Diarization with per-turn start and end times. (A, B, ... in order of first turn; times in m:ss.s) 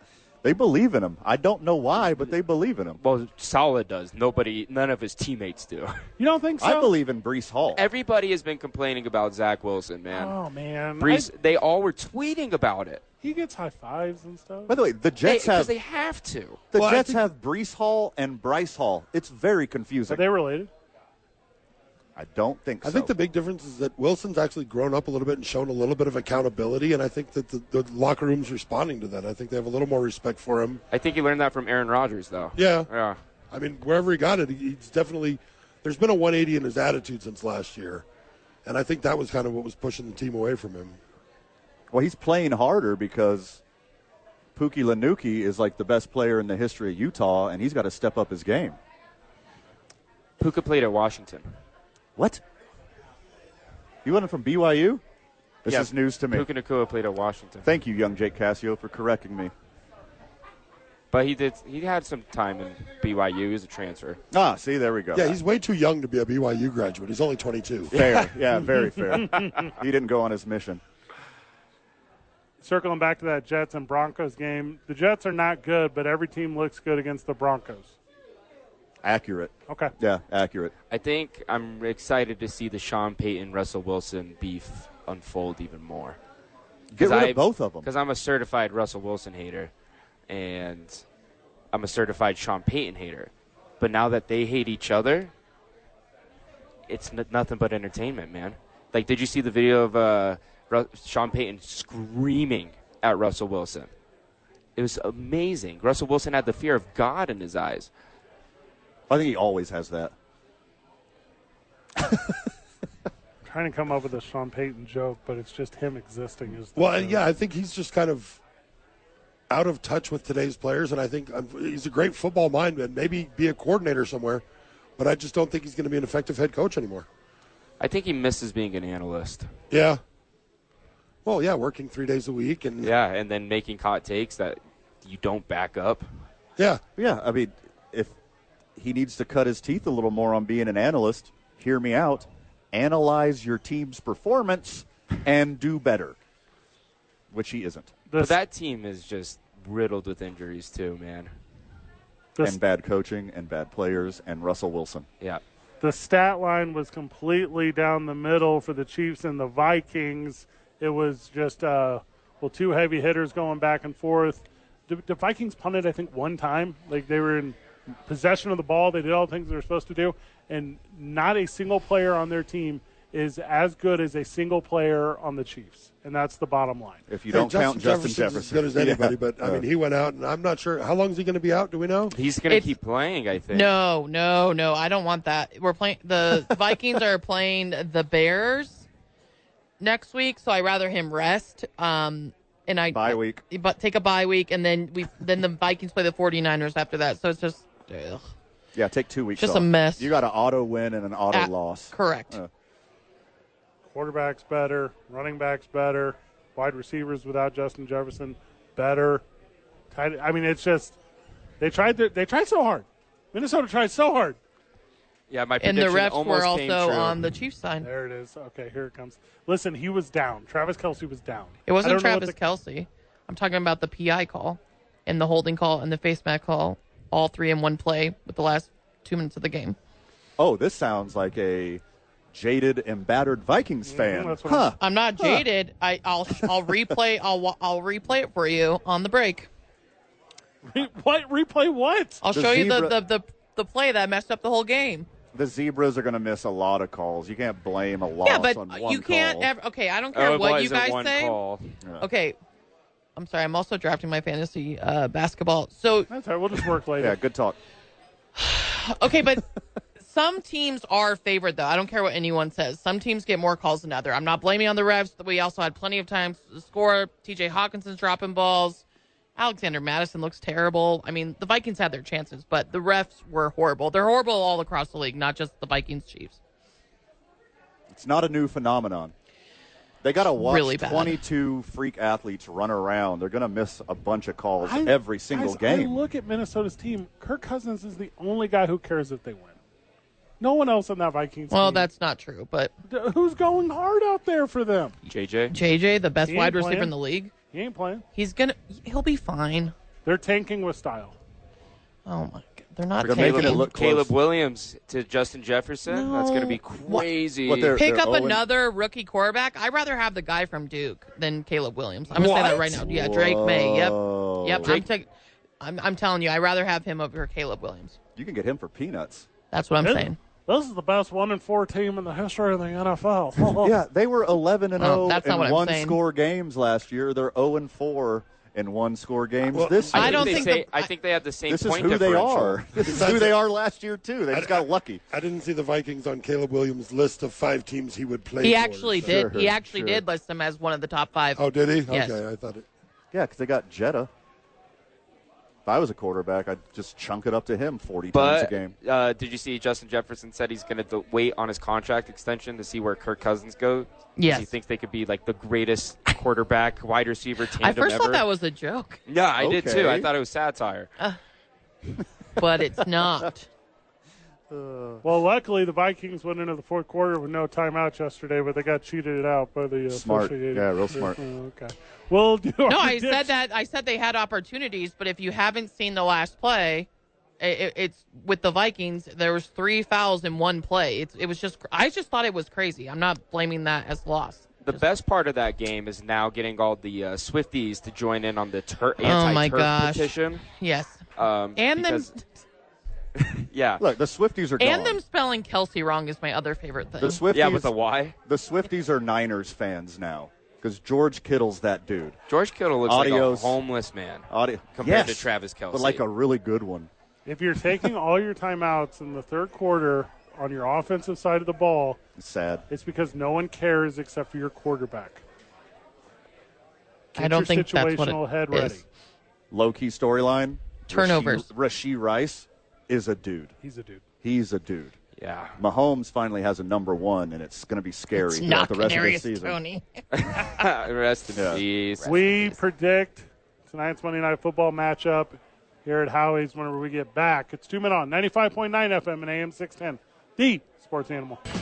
0:00.4-0:03.0 A
0:03.0-0:06.1 B
0:06.2-0:06.9 C
0:06.6-0:07.8 A
0:07.7-0:10.4 B
0:10.1-0:11.3 C
0:11.0-0:13.0 B
0:13.2-0:14.8 C
0:14.7-0:15.7 A
0:15.2-0:16.6 B
0:16.7-0:20.2 A
0:16.7-0:17.2 D
0:20.1-0:20.7 C
0:22.2-0:23.1 A
0:22.8-0:30.8 D
0:30.9-0:33.2 B
0:32.6-0:32.9 D
0:33.5-0:38.0 D
0:38.6-0:41.0 D
0:41.9-0:43.6 A
0:44.6-0:48.8 A
0:50.4-0:51.5 B
0:52.2-0:52.4 A
0:54.0-0:55.0 A
0:55.6-0:56.4 A
0:55.6-0:57.7 B
0:57.6-0:59.5 A
1:01.1-1:04.2 B
1:04.3-1:05.4 A
1:05.1-1:07.9 D
1:07.9-1:08.3 B
1:07.9-1:10.8 A
1:12.6-1:18.0 C
1:19.0-1:20.7 A
1:19.7-1:19.9 C
1:20.9-1:26.2 B
1:26.9-1:27.9 A
1:27.0-1:29.7 B
1:30.3-1:31.0 B
1:31.7-1:35.3 B
1:36.9-1:43.9 B
1:44.8-1:47.9 B
1:49.1-1:50.1 A
1:53.4-1:57.2 C
1:56.8-1:58.4 D
1:59.5-2:04.4 D
2:05.0-2:07.1 D
2:07.8-2:09.5 B
2:09.7-2:10.0 D
2:11.2-2:12.9 D
2:12.8-2:16.0 B
2:17.0-2:18.1 A
2:18.8-2:26.2 A
2:27.3-2:27.9 A
2:28.1-2:28.4 C
2:28.2-2:31.3 B
2:32.4-2:35.0 A
2:35.8-2:57.1 C
2:57.1-2:59.6 A
2:57.3-3:02.2 D
3:02.1-3:03.7 B
3:02.5-3:02.8 E
3:03.5-3:08.8 E
3:09.8-3:18.2 E
3:12.9-3:13.4 A
3:18.7-3:22.5 A
3:19.4-3:20.1 E
3:21.3-3:22.4 E
3:23.8-3:29.2 C
3:29.9-3:31.0 C
3:31.6-3:34.4 C
3:35.3-3:37.2 B
3:35.6-3:37.9 E
3:37.8-3:42.4 C
3:41.7-3:49.8 E
3:50.4-3:55.4 A
3:53.8-3:54.8 C
3:54.8-3:59.5 E
3:56.4-3:56.9 A
4:00.6-4:02.2 C
4:02.2-4:05.1 E
4:02.3-4:03.0 A
4:05.3-4:09.5 A
4:08.2-4:11.4 E
4:10.1-4:11.7 B
4:12.0-4:12.4 E
4:13.2-4:16.1 E
4:16.1-4:17.2 C
4:17.0-4:17.6 A
4:18.4-4:19.5 E
4:20.0-4:28.8 E
4:29.4-4:36.4 E
4:37.9-4:39.1 A
4:40.0-4:46.0 A
4:40.4-4:41.2 E
4:44.6-4:49.6 C
4:50.4-4:51.9 C
4:51.5-4:52.7 E
4:52.9-4:54.9 C
4:55.0-4:55.5 B
4:55.5-4:57.3 E
4:56.2-4:56.9 C
4:57.5-4:58.0 C
4:58.1-4:59.7 E
5:00.0-5:01.1 C
5:02.0-5:03.7 E
5:03.0-5:04.1 A
5:03.0-5:07.8 B
5:05.9-5:07.1 E
5:07.4-5:08.4 A
5:07.8-5:15.1 E
5:12.4-5:14.8 A
5:15.6-5:18.0 E
5:18.2-5:19.3 A
5:19.5-5:20.2 E
5:19.8-5:23.7 C
5:23.5-5:30.5 A
5:24.8-5:26.0 E
5:29.5-5:30.4 D
5:29.9-5:30.9 E
5:29.9-5:32.7 B
5:31.5-5:35.0 A
5:32.8-5:33.4 D
5:34.3-5:39.3 D
5:38.4-5:42.2 E
5:39.0-5:40.0 A
5:41.4-5:42.6 D
5:43.1-5:44.1 A
5:45.6-5:48.7 A
5:48.1-5:58.2 B
5:54.2-5:54.5 E
5:57.6-5:59.0 E
5:59.1-6:00.9 B
5:59.4-6:00.1 A
6:02.4-6:03.5 E
6:03.0-6:03.3 A
6:04.5-6:05.0 A
6:05.0-6:13.4 C
6:09.9-6:11.2 A
6:12.6-6:16.9 E
6:17.4-6:24.8 E
6:24.6-6:30.4 B
6:29.0-6:32.3 E
6:31.2-6:32.1 B
6:33.2-6:33.8 B
6:33.8-6:35.0 A
6:34.6-6:37.2 E
6:37.0-6:37.7 A
6:37.3-6:38.2 B
6:38.2-6:42.2 A
6:42.3-6:46.0 B
6:42.8-6:43.6 A
6:44.3-6:46.9 A
6:47.2-6:52.0 C
6:52.2-6:52.6 A
6:52.7-6:55.2 C
6:57.1-6:58.8 C
6:57.2-6:58.8 E
6:59.5-7:03.5 A
7:00.9-7:01.5 E
7:03.6-7:04.0 C
7:04.2-7:05.0 A
7:05.2-7:05.6 B
7:05.6-7:09.6 A
7:08.1-7:10.4 E
7:10.1-7:12.3 B
7:11.3-7:11.6 A
7:12.0-7:21.4 C
7:12.1-7:12.5 E